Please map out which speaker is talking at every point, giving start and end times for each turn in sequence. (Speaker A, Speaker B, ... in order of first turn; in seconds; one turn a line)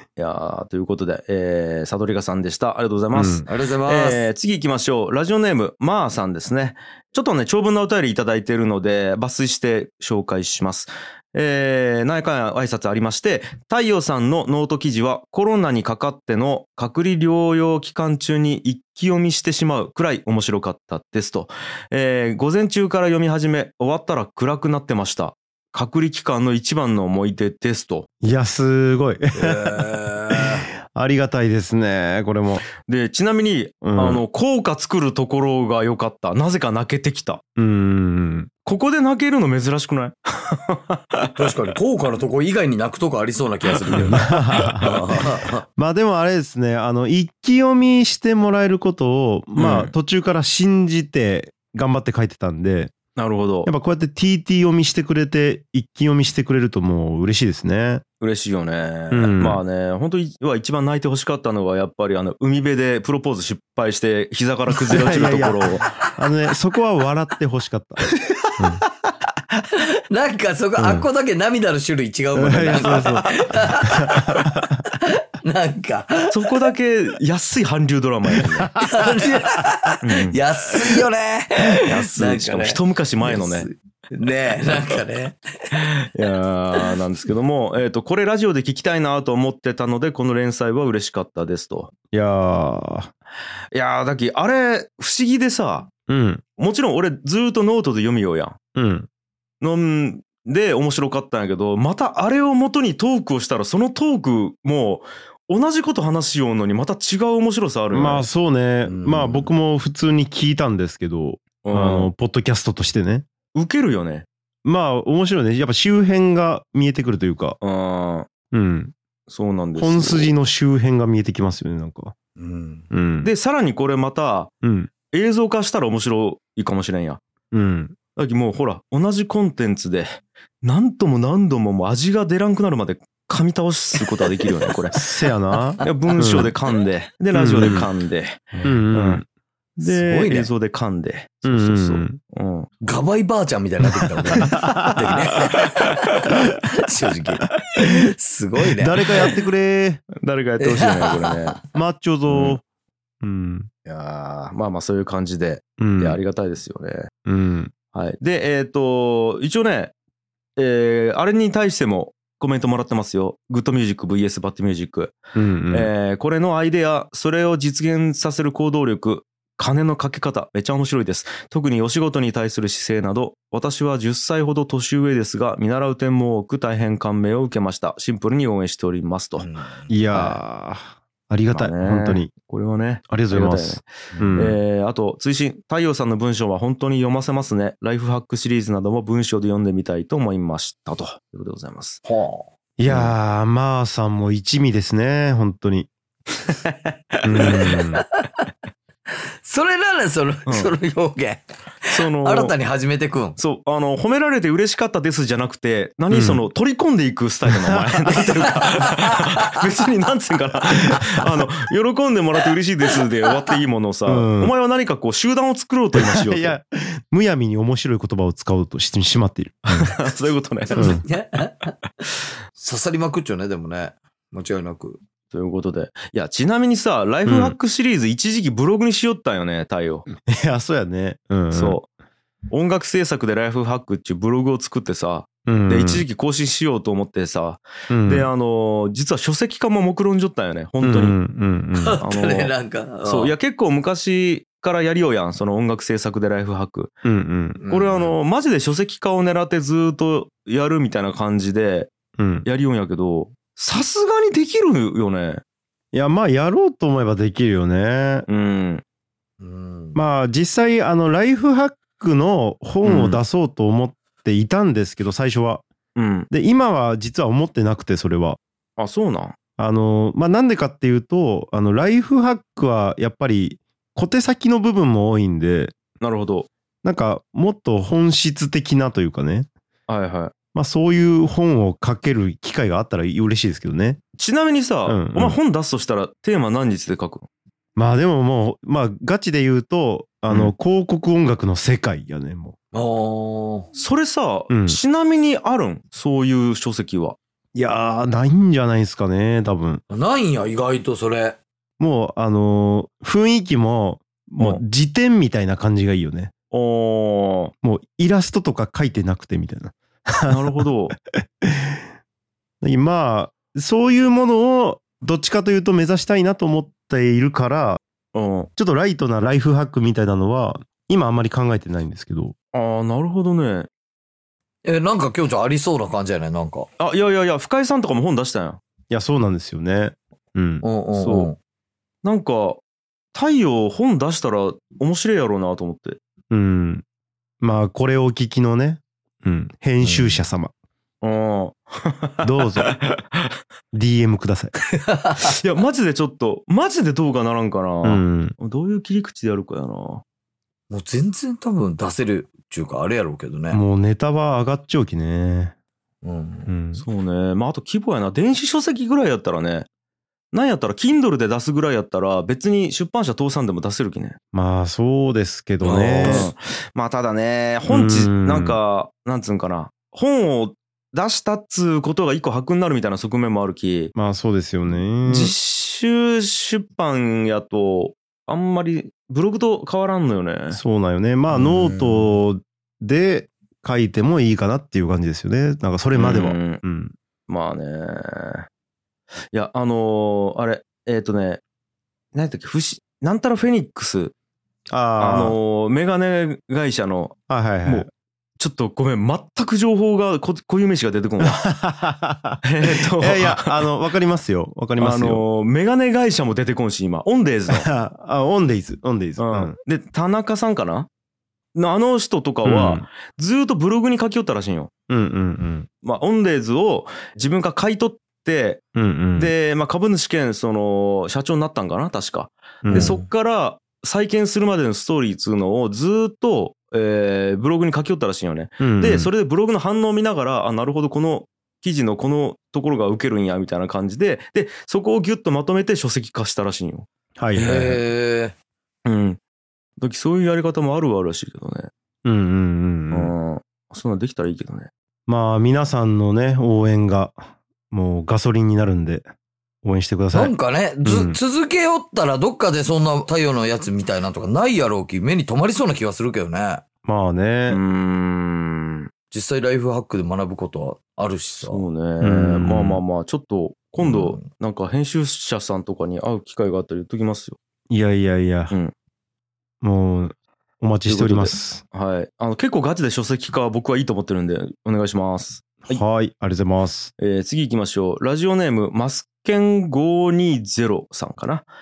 Speaker A: 0.2-28.1
Speaker B: 3.1-3.4
Speaker C: 3.4-4.2
Speaker B: 28.2-32.6
Speaker C: 29.4-30.7
Speaker A: 32.8-37.4
Speaker B: 33.8-34.2
Speaker B: 37.6-38.5
Speaker A: 38.6-41.4
Speaker C: 41.4-45.6
Speaker A: 43.9-44.2
Speaker B: 44.0-45.0
Speaker B: 45.8-52.9
Speaker A: 49.5-49.9
Speaker A: 53.1-53.7
Speaker B: 53.6-58.0
Speaker A: 58.2-65.9
Speaker B: 59.1-59.6
Speaker B: 64.8-68.0
Speaker B: 68.6-68.8
Speaker C: 69.7-76.6
Speaker B: 70.8-71.0
Speaker B: 72.3-74.8
Speaker A: 72.9-73.2
Speaker A: 76.3-78.8
Speaker C: 78.8-85.8
Speaker A: 80.0-80.4
Speaker A: 81.8-83.7
Speaker A: 85.8-91.9
Speaker B: 92.1-93.1
Speaker A: 93.7-95.9
Speaker B: 96.1-96.4
Speaker A: 96.6-98.6
Speaker B: 98.8-99.1
Speaker A: 99.6-108.2
Speaker B: 107.9-113.2
Speaker C: 108.8-109.5
Speaker A: 111.6-112.1
Speaker A: 113.5-114.3
Speaker B: 114.6-117.6
Speaker A: 117.6-118.3
Speaker B: 118.5-118.9
Speaker A: 119.3-120.3
Speaker B: 119.8-122.1
Speaker C: 122.4-122.9
Speaker B: 122.9-123.3
Speaker A: 123.2-124.5
Speaker B: 124.6-124.9
Speaker A: 125.1-127.2
Speaker B: 127.5-128.0
Speaker A: 128.2-135.0
Speaker B: 134.9-136.5
Speaker A: 135.8-139.2
Speaker B: 137.3-137.9
Speaker B: 138.6-139.2
Speaker A: 139.8-142.7
Speaker C: 139.8-140.5
Speaker B: 141.4-142.2
Speaker C: 142.8-149.3
Speaker B: 144.0-145.2
Speaker B: 148.8-150.0
Speaker A: 150.2-151.6
Speaker C: 150.6-151.6
Speaker B: 151.7-152.6
Speaker A: 152.3-152.6
Speaker B: 153.2-153.7
Speaker A: 153.8-157.1
Speaker B: 155.8-156.2
Speaker B: 157.2-157.7
Speaker A: 157.9-159.9
Speaker A: 160.6-165.2
Speaker B: 165.3-165.9
Speaker A: 165.7-179.5
Speaker C: 179.4-179.9
Speaker B: 179.9-182.3
Speaker A: 180.1-180.4
Speaker A: 181.5-192.0
Speaker B: 183.1-184.6
Speaker C: 184.1-184.4
Speaker C: 192.0-192.5
Speaker B: 192.8-195.9
Speaker A: 192.9-193.1
Speaker B: 197.2-198.0
Speaker A: 197.3-197.9
Speaker C: 197.3-198.5
Speaker C: 199.4-203.4
Speaker A: 200.5-200.7
Speaker A: 201.9-202.5
Speaker A: 203.4-216.6
Speaker B: 206.1-206.4
Speaker B: 207.4-208.2
Speaker C: 208.4-209.6
Speaker B: 214.1-214.5
Speaker B: 215.9-219.9
Speaker A: 219.7-221.0
Speaker C: 220.7-221.8
Speaker B: 220.8-221.0
Speaker C: 222.6-225.0
Speaker A: 225.3-230.1
Speaker B: 227.2-227.6
Speaker B: 230.2-231.8
Speaker A: 231.5-231.8
Speaker A: 232.5-241.2
Speaker B: 235.4-236.0
Speaker B: 237.9-238.3
Speaker B: 240.8-242.0
Speaker C: 241.8-243.3
Speaker A: 242.0-242.5
Speaker A: 243.0-246.9
Speaker B: 247.0-247.6
Speaker C: 247.6-248.2
Speaker A: 247.7-251.9
Speaker B: 252.2-252.4
Speaker A: 252.4-255.4
Speaker B: 255.9-258.2
Speaker A: 258.3-258.8
Speaker C: 259.4-260.0
Speaker B: 259.9-265.6
Speaker A: 262.8-263.2
Speaker A: 265.9-266.3
Speaker B: 266.3-268.4
Speaker A: 268.8-269.4
Speaker B: 269.6-275.7
Speaker A: 276.0-276.5
Speaker B: 276.8-279.5
Speaker A: 279.9-280.3
Speaker B: 280.5-284.0
Speaker A: 284.2-287.3
Speaker B: 284.9-285.4
Speaker B: 287.8-292.5
Speaker C: 292.7-293.7
Speaker A: 293.8-297.2
Speaker B: 294.5-294.8
Speaker B: 297.5-299.8
Speaker C: 299.9-301.4
Speaker B: 301.8-306.3
Speaker A: 306.5-307.5
Speaker B: 307.6-310.6
Speaker A: 310.3-310.9
Speaker B: 311.1-311.8
Speaker B: 312.6-317.8
Speaker A: 318.1-318.5
Speaker B: 318.6-322.4
Speaker A: 322.5-323.7
Speaker C: 324.6-326.7
Speaker A: 326.8-328.6
Speaker B: 328.9-330.6
Speaker C: 330.6-331.4
Speaker A: 330.9-331.3
Speaker A: 332.0-332.6
Speaker A: 333.1-336.0
Speaker B: 336.3-336.8
Speaker B: 337.4-340.5
Speaker C: 339.8-340.2
Speaker A: 341.0-343.0
Speaker B: 342.2-342.7
Speaker B: 343.7-344.5
Speaker C: 344.8-345.4
Speaker A: 345.3-350.0
Speaker B: 347.8-348.4
Speaker C: 350.7-353.6
Speaker B: 353.5-355.5
Speaker C: 356.0-356.5
Speaker B: 356.5-356.9
Speaker A: 356.8-359.7
Speaker A: 360.3-364.2
Speaker B: 364.3-366.3
Speaker C: 365.6-366.3
Speaker A: 365.7-373.9
Speaker B: 367.7-368.6
Speaker B: 373.9-375.3
Speaker A: 375.0-380.6
Speaker B: 380.5-386.9
Speaker C: 381.3-382.2
Speaker A: 385.9-386.6
Speaker A: 387.3-388.5
Speaker A: 389.3-391.4
Speaker A: 392.1-394.1
Speaker B: 394.7-395.4
Speaker A: 395.0-397.9
Speaker B: 397.3-397.9
Speaker A: 398.4-401.4
Speaker B: 401.2-405.2
Speaker A: 402.4-403.6
Speaker A: 404.8-407.7
Speaker B: 407.5-409.6
Speaker A: 409.2-410.9
Speaker A: 411.5-414.7
Speaker B: 412.4-412.9
Speaker B: 414.9-415.7
Speaker A: 415.8-418.6
Speaker B: 418.8-419.3
Speaker A: 419.2-437.7
Speaker B: 422.6-422.9
Speaker C: 422.7-423.1
Speaker B: 428.6-429.1
Speaker B: 437.2-437.8
Speaker C: 437.4-438.4
Speaker A: 438.9-439.2
Speaker A: 439.8-441.7
Speaker B: 442.0-443.1
Speaker A: 442.9-444.7
Speaker B: 445.1-449.1
Speaker B: 449.6-451.2
Speaker C: 450.1-456.6
Speaker B: 456.9-457.6
Speaker A: 457.5-458.9
Speaker C: 459.1-461.6
Speaker A: 461.4-467.4
Speaker B: 462.0-462.8
Speaker C: 463.8-464.2
Speaker B: 467.7-468.5
Speaker B: 469.6-471.6
Speaker A: 470.9-475.8
Speaker B: 475.7-476.9
Speaker A: 477.0-481.5